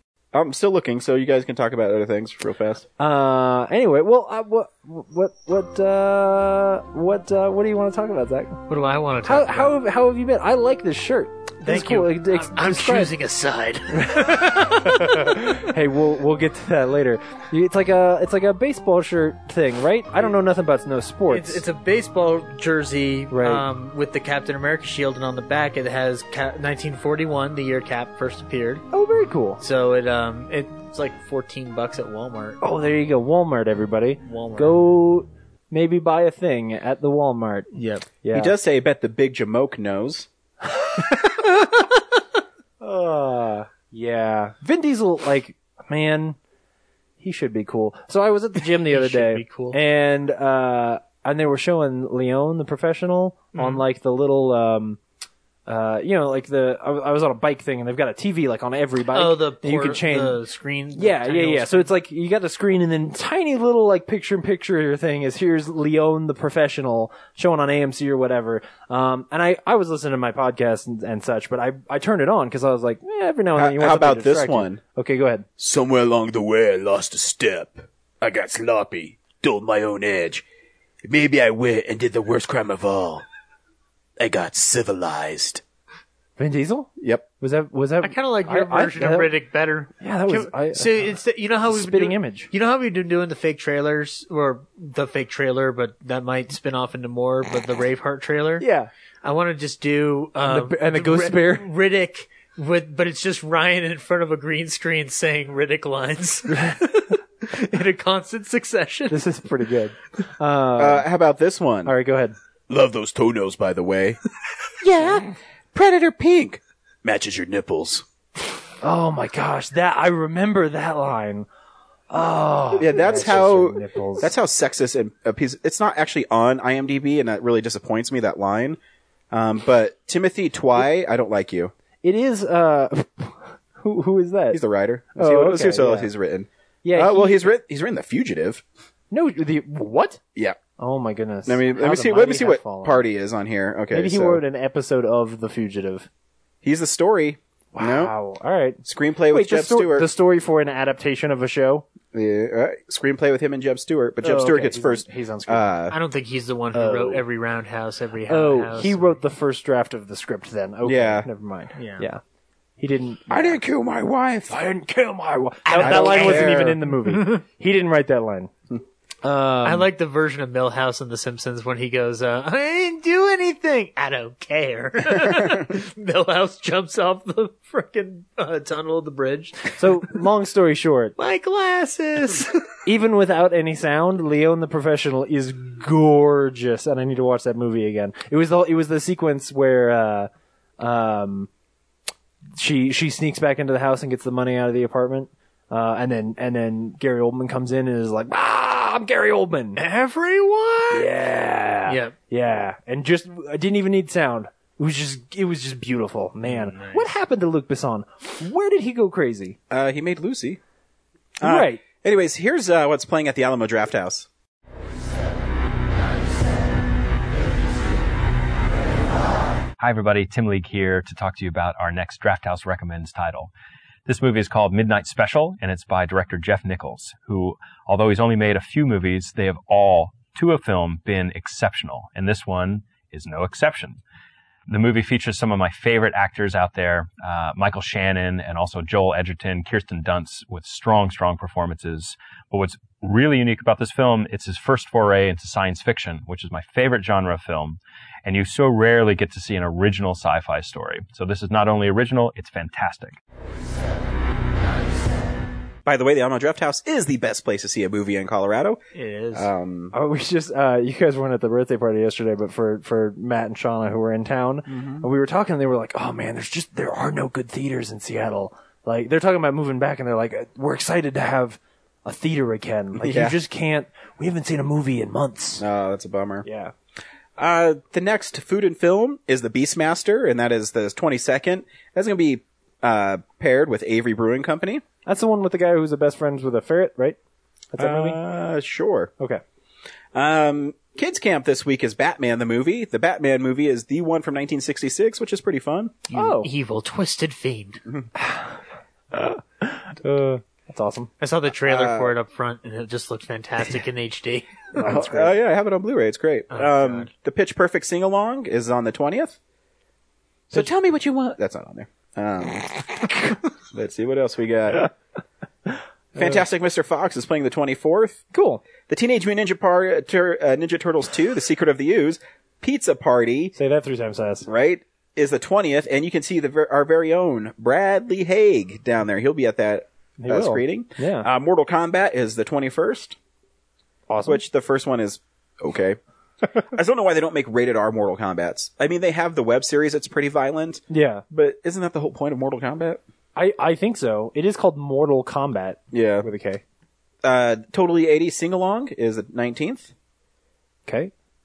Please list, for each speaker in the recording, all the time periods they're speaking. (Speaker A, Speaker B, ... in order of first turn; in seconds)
Speaker A: 0.3-2.8, 38.3-40.3, 73.5-74.8, 75.6-80.4, 81.0-83.2, 84.2-85.6, 110.8-111.9, 112.7-114.2, 114.8-118.0, 122.8-128.8, 129.3-131.7, 134.5-138.6, 141.4-144.4, 146.6-148.1, 148.8-150.1, 152.1-156.0, 160.8-161.3, 163.3-164.6, 165.8-166.8, 209.7-210.6, 211.4-214.3, 255.8-258.8, 259.3-259.9, 264.7-265.1, 272.9-273.4, 275.6-276.4, 277.4-284.8, 287.8-289.1, 290.1-295.9, 301.6-302.1, 304.8-309.4, 310.5-313.0, 313.7-314.9, 316.1-318.2, 318.8-323.5, 324.4-333.2, 334.2-336.0, 336.6-343.0, 345.9-346.3, 347.2-349.9
Speaker B: 3.0-8.6, 9.2-13.1, 13.9-21.6, 23.3-23.6, 28.9-29.6, 32.6-37.7, 38.2-38.5, 40.8-41.3, 42.8-46.4, 47.2-55.0, 55.6-60.4, 60.9-75.5, 86.4-89.3, 90.0-91.1, 91.7-92.5, 98.6-98.9, 100.4-101.7, 106.5-107.0, 109.1-111.1, 111.8-112.3, 118.8-121.5, 122.1-124.3, 132.0-134.6, 135.1-136.1, 136.8-137.5, 139.1-140.2, 140.8-143.0, 143.9-146.1, 147.7-151.8, 154.2-155.7, 156.7-157.2, 158.3-162.2, 162.8-163.6, 164.5-168.5, 169.2-169.9, 179.7-181.1, 182.8-191.5, 192.6-199.8, 200.9-209.6, 211.4-211.8, 259.9-275.6, 276.4-276.7, 285.1-287.2, 287.7-288.2, 296.1-296.5, 298.1-298.5, 299.1-301.1, 304.7-305.3, 318.3-318.6, 323.6-324.5, 330.2-331.3, 334.1-334.4, 340.9-341.2, 343.4-346.6, 350.9-351.1
Speaker C: 8.7-9.8, 11.6-15.2, 21.3-28.8, 29.6-32.6, 34.2-34.8, 37.7-38.1, 48.9-49.8, 53.5-53.8, 59.1-61.9, 88.0-98.6, 99.2-106.8, 107.4-109.2, 155.9-159.1, 161.8-162.1, 165.7-167.4, 169.6-179.7, 181.2-182.7, 199.8-201.1, 201.9-202.1, 206.4-207.1, 258.9-259.5, 296.1-297.8, 301.2-304.6, 306.5-307.1
Speaker D: 219.8-223.5, 224.1-234.0, 234.7-253.2